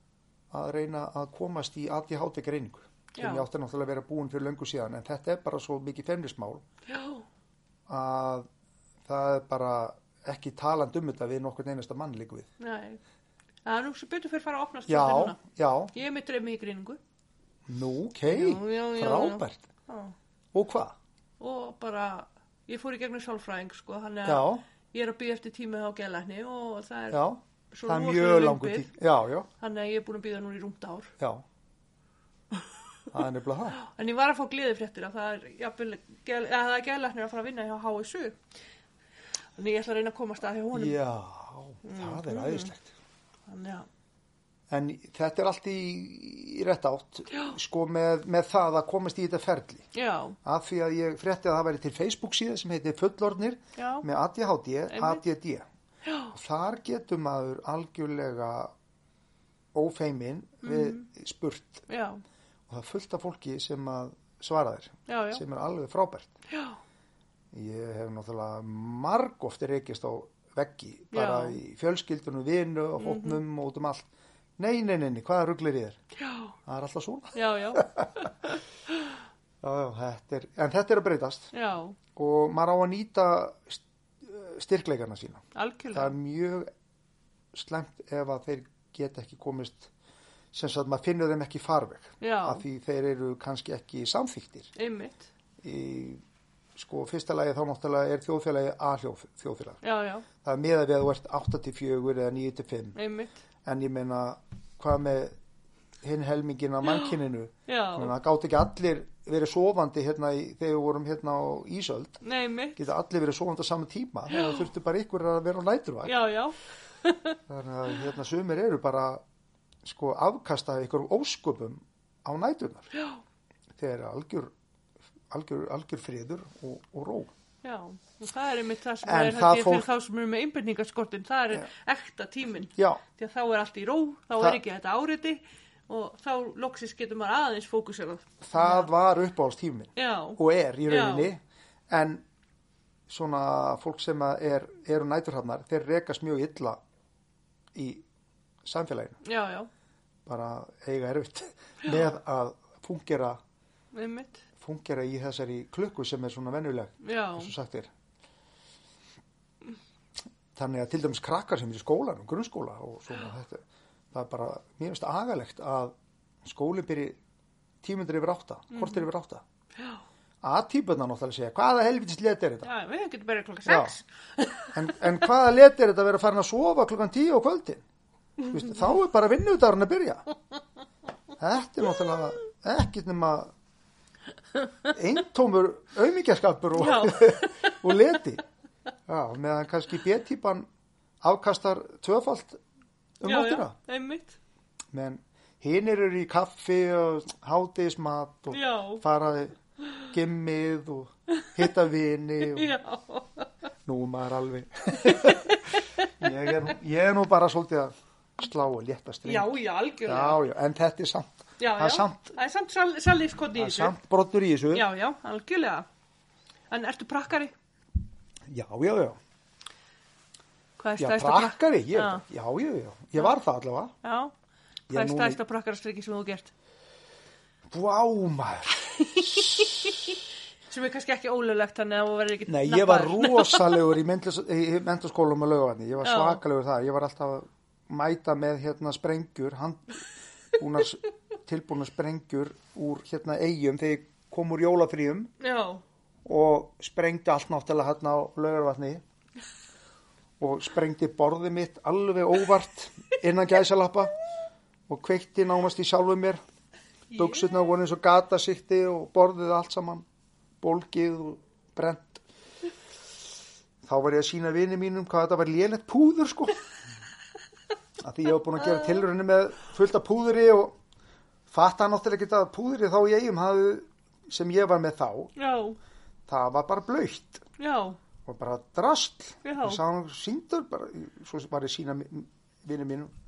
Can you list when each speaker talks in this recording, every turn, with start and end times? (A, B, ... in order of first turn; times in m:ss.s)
0:00.5-0:06.6 A
0:03.2-0:03.4 B
0:06.9-0:07.2 B
0:07.9-0:08.5 A
0:09.0-0:12.5 A
0:12.6-0:13.0 B
0:13.6-0:15.4 B
0:14.9-0:15.9 A
0:15.9-0:17.0 B
0:17.7-0:19.6 A
0:18.3-0:20.1 B
0:20.5-0:20.9 A
0:21.4-0:27.2 B
0:24.2-0:24.6 A
0:27.1-0:29.5 A
0:27.7-0:28.9 B
0:29.6-0:31.1 B
0:33.1-0:33.8 A
0:33.8-0:38.4 B
0:39.6-0:41.0 B
0:40.7-0:42.9 A
0:41.8-0:42.7 B
0:43.5-0:43.9 B
0:44.7-0:49.9 A
0:47.3-0:47.6 B
0:49.9-0:50.4 B
0:50.4-0:55.6 A
0:53.8-0:54.0 B
0:54.9-0:55.2 B
0:56.0-0:56.3 B
0:56.3-0:58.7 A
0:59.7-1:01.8 A
1:00.6-1:01.0 B
1:01.9-1:02.2 B
1:02.7-1:06.3 A
1:05.1-1:05.4 B
1:06.5-1:06.8 B
1:07.5-1:14.0 A
1:11.1-1:11.6 B
1:13.0-1:13.4 B
1:14.6-1:16.0 A
1:16.2-1:16.5 B
1:16.6-1:18.6 A
1:17.3-1:18.6 B
1:19.6-1:21.5 A
1:21.5-1:22.0 B
1:22.1-1:26.7 A
1:25.5-1:26.1 B
1:27.5-1:29.9 A
1:30.5-1:34.7 A
1:32.2-1:32.6 B
1:34.8-1:35.3 B
1:35.6-1:36.2 A
1:36.8-1:39.8 A
1:39.8-1:40.2 B
1:40.4-1:43.0 A
1:42.9-1:43.3 B
1:43.6-1:45.3 A
1:46.0-1:52.2 A
1:47.7-1:48.1 B
1:52.2-1:52.8 B
1:52.8-1:56.2 A
1:54.3-1:54.7 B
1:56.0-1:57.4 B
1:57.5-1:59.2 A
1:59.8-2:02.9 A
2:02.9-2:03.2 B
2:03.8-2:04.5 A
2:05.3-2:07.3 A
2:07.6-2:18.9 B
2:09.0-2:09.9 A
2:12.7-2:13.0 A
2:18.4-2:22.2 A
2:20.0-2:21.3 B
2:23.1-2:26.8 A
2:27.7-2:28.0 A
2:28.6-2:29.2 A
2:29.2-2:29.7 B
2:30.2-2:33.4 A
2:33.9-2:34.4 B
2:34.6-2:37.9 A
2:37.0-2:37.5 B
2:40.5-2:47.2 A
2:47.8-2:49.4 A
2:48.8-2:49.0 B
2:50.4-2:52.7 A
2:52.6-2:54.9 B
2:53.6-2:54.0 A
2:54.7-2:57.8 A
2:58.4-3:00.3 A
2:58.6-2:58.9 B
3:01.4-3:03.5 A
3:04.9-3:08.4 A
3:06.7-3:07.8 B
3:09.1-3:10.6 A
3:11.2-3:12.6 A
3:13.2-3:13.7 A
3:13.2-3:14.4 B
3:14.9-3:22.7 A
3:18.5-3:19.0 B
3:22.4-3:23.5 B
3:23.8-3:32.3 A
3:25.0-3:26.3 B
3:29.2-3:30.4 B
3:31.6-3:33.9 B
3:33.5-3:34.9 A
3:34.7-3:35.8 B
3:36.7-3:37.5 B
3:38.5-3:39.2 A
3:40.8-3:42.2 B
3:41.0-3:43.9 A
3:44.0-3:44.3 B
3:44.9-3:45.4 A
3:44.9-3:46.5 B
3:47.7-3:50.2 A
3:49.2-3:49.9 B
3:50.7-3:53.8 B
3:52.4-4:00.0 A
3:56.0-3:56.4 B
4:00.5-4:05.3 A
4:05.4-4:05.8 B
4:06.2-4:09.0 A
4:10.4-4:14.1 A
4:14.9-4:16.4 A
4:17.1-4:17.5 B
4:17.1-4:20.0 A
4:20.6-4:22.2 A
4:23.8-4:26.6 A
4:28.0-4:30.7 A
4:31.5-4:35.3 A
4:35.4-4:35.8 B
4:36.3-4:37.4 A
4:37.6-4:38.0 B
4:38.2-4:43.1 A
4:39.4-4:39.8 B